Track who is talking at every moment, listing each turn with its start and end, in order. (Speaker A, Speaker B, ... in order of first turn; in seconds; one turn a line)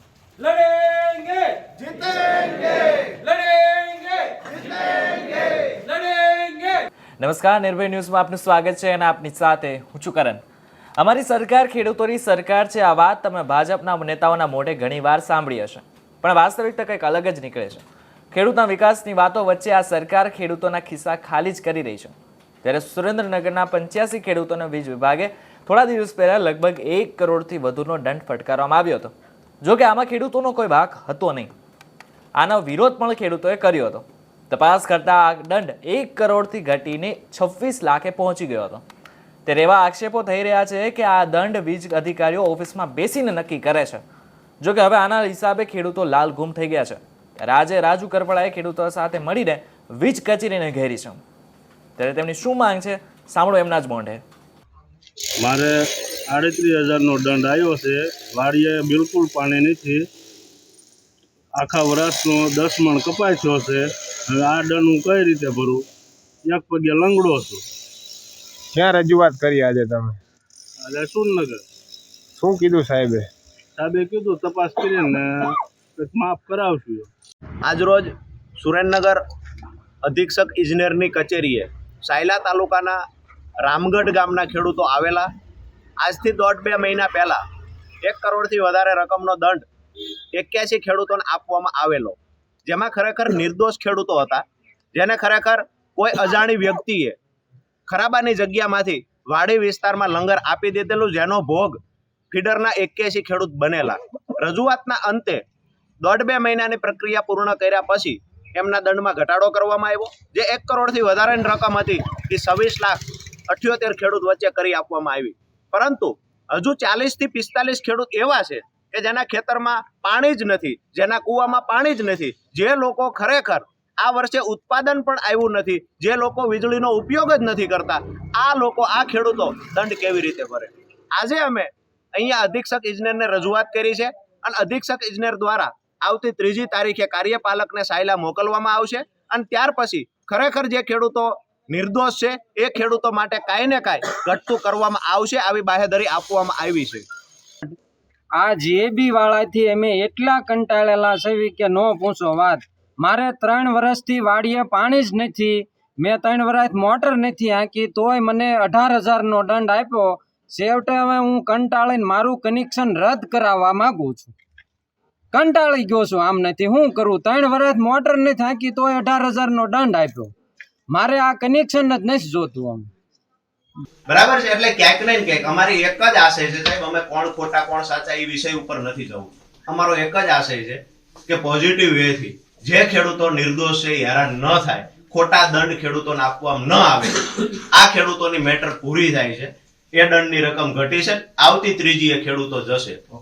Speaker A: 0.4-4.5
Speaker A: 5.7-6.8
Speaker B: 7.2-10.4
Speaker B: 11.0-31.5
Speaker B: 32.4-38.8
Speaker B: 39.5-44.0
Speaker B: 44.6-51.2
Speaker B: 52.0-54.2
Speaker C: 55.4-55.7
Speaker C: 56.3-60.1
Speaker C: 61.5-65.9
Speaker C: 66.5-67.6
Speaker D: 68.8-70.2
Speaker C: 70.8-71.6
Speaker D: 72.4-73.3
Speaker C: 73.8-77.1
Speaker E: 77.6-79.2
Speaker E: 80.0-83.0
Speaker E: 83.6-85.3
Speaker E: 86.0-87.4
Speaker E: 88.0-89.7
Speaker E: 90.3-94.4
Speaker E: 95.0-97.2
Speaker E: 97.9-101.8
Speaker E: 102.3-105.4
Speaker E: 106.0-147.1
Speaker A: 148.4-164.3
Speaker A: 165.3-170.3
Speaker A: 170.9-172.9
Speaker E: 174.1-193.0